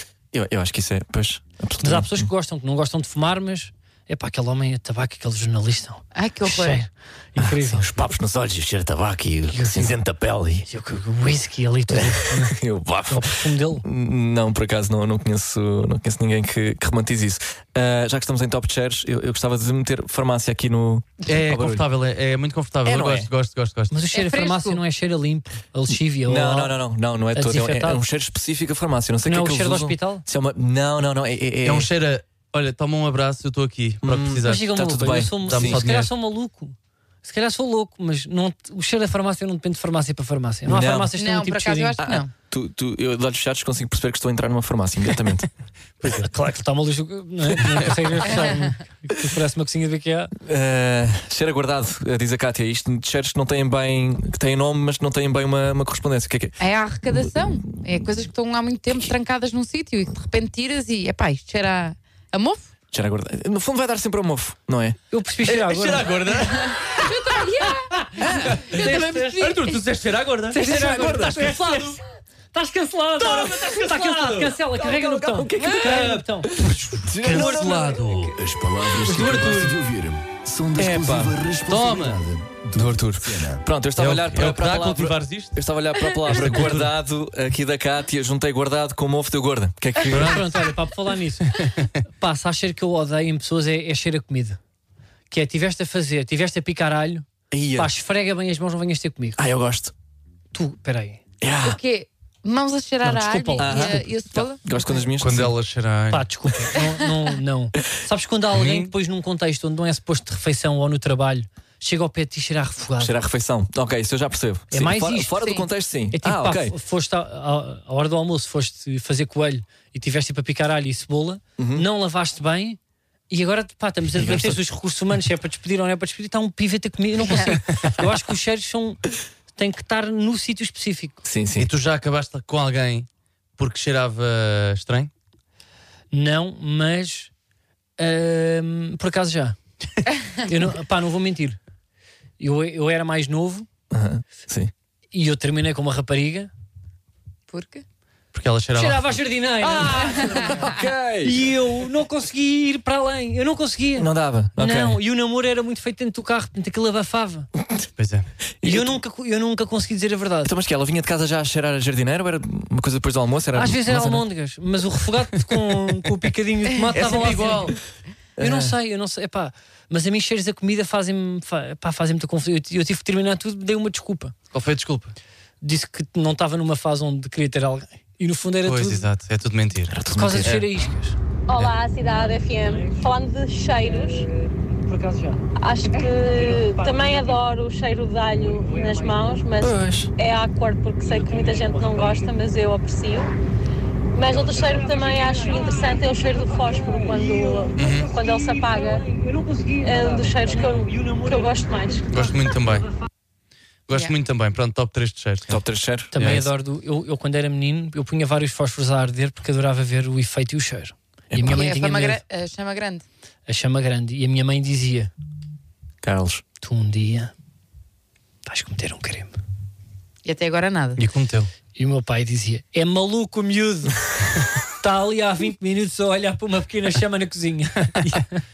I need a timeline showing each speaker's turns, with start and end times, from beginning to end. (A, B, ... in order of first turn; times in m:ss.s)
0:00.3-0:02.3 A
0:01.8-0:07.8 B
0:06.1-0:06.8 C
0:07.4-0:10.7 A
0:09.5-0:09.9 B
0:10.7-0:13.8 B
0:11.9-0:21.8 A
0:21.3-0:23.9 D
0:22.8-0:23.3 A
0:23.9-0:26.8 B
0:24.1-0:24.8 C
0:25.9-0:31.9 A
0:27.3-0:28.0 B
0:29.2-0:30.2 B
0:31.6-0:34.7 D
0:34.0-0:35.8 A
0:34.4-0:42.0 B
0:35.4-0:36.1 D
0:40.6-0:41.1 A
0:41.1-0:42.3 C
0:42.0-0:45.5 A
0:46.0-0:50.3 B
0:48.3-0:48.7 C
0:50.4-0:56.6 A
0:56.6-1:02.7 C
1:02.9-1:05.0 A
1:05.1-1:06.1 B
1:05.4-1:07.1 D
1:06.4-1:09.8 C
1:08.0-1:09.7 B
1:08.4-1:12.0 D
1:10.5-1:12.0 B
1:10.6-1:11.6 A
1:12.5-1:16.5 B
1:13.2-1:14.6 D
1:14.7-1:18.0 A
1:15.6-1:16.2 D
1:16.9-1:18.3 D
1:17.2-1:18.3 B
1:18.4-1:23.6 E
1:19.0-1:19.8 B
1:20.5-1:21.4 A
1:21.6-1:22.2 D
1:22.7-1:30.6 A
1:24.0-1:25.6 D
1:26.2-1:26.9 D
1:30.1-1:34.6 B
1:35.3-1:37.2 B
1:37.5-1:37.9 A
1:37.8-1:39.4 B
1:39.4-1:39.9 A
1:40.5-1:41.2 B
1:41.4-1:41.8 A
1:41.6-1:45.0 C
1:43.0-1:44.0 B
1:43.6-1:45.5 A
1:45.2-1:46.2 D
1:46.1-1:53.1 B
1:48.5-1:48.9 D
1:53.0-1:56.8 A
1:54.7-1:55.4 B
1:55.4-1:55.6 C
1:56.1-2:02.8 B
2:01.6-2:01.8 A
2:03.3-2:09.0 B
2:09.5-2:11.2 B
2:11.2-2:11.7 A
2:11.5-2:13.1 D
2:13.6-2:15.1 D
2:16.1-2:17.3 B
2:18.0-2:19.6 B
2:20.4-2:21.6 B
2:22.4-2:23.7 B
2:23.9-2:24.7 A
2:25.1-2:26.5 B
2:27.5-2:27.8 C
2:28.3-2:29.2 D
2:28.7-2:30.7 B
2:29.7-2:31.5 A
2:30.0-2:30.7 C
2:31.2-2:37.5 B
2:34.0-2:35.0 A
2:38.0-2:38.3 D
2:38.6-2:39.0 A
2:38.6-2:40.5 B
2:40.4-2:44.2 A
2:43.5-2:47.7 B
2:46.8-2:47.7 C
2:47.0-2:47.7 D
2:48.4-2:48.7 A
2:48.4-2:54.3 B
2:54.5-2:55.2 D
2:55.6-2:59.0 B
2:58.6-3:00.7 D
2:59.9-3:00.5 A
3:00.1-3:01.1 B
3:01.5-3:04.3 F
3:02.2-3:03.0 B
3:03.8-3:05.4 B
3:05.6-3:13.3 F
3:06.8-3:07.2 B
3:08.7-3:09.1 B
3:09.6-3:10.1 A
3:11.1-3:12.2 B
3:14.1-3:19.1 F
3:14.3-3:22.0 B
3:17.8-3:18.1 D
3:19.8-3:22.1 F
3:22.1-3:22.9 D
3:23.9-3:25.6 D
3:25.5-3:26.1 A
3:26.1-3:32.2 B
3:26.2-3:26.5 D
3:31.3-3:31.6 A
3:31.4-3:33.0 C
3:33.5-3:35.1 B
3:36.0-3:36.4 A
3:36.6-3:37.3 B
3:38.4-3:39.3 B
3:40.2-3:41.0 C
3:41.0-3:41.5 D
3:41.8-3:44.0 B
3:44.8-3:48.4 B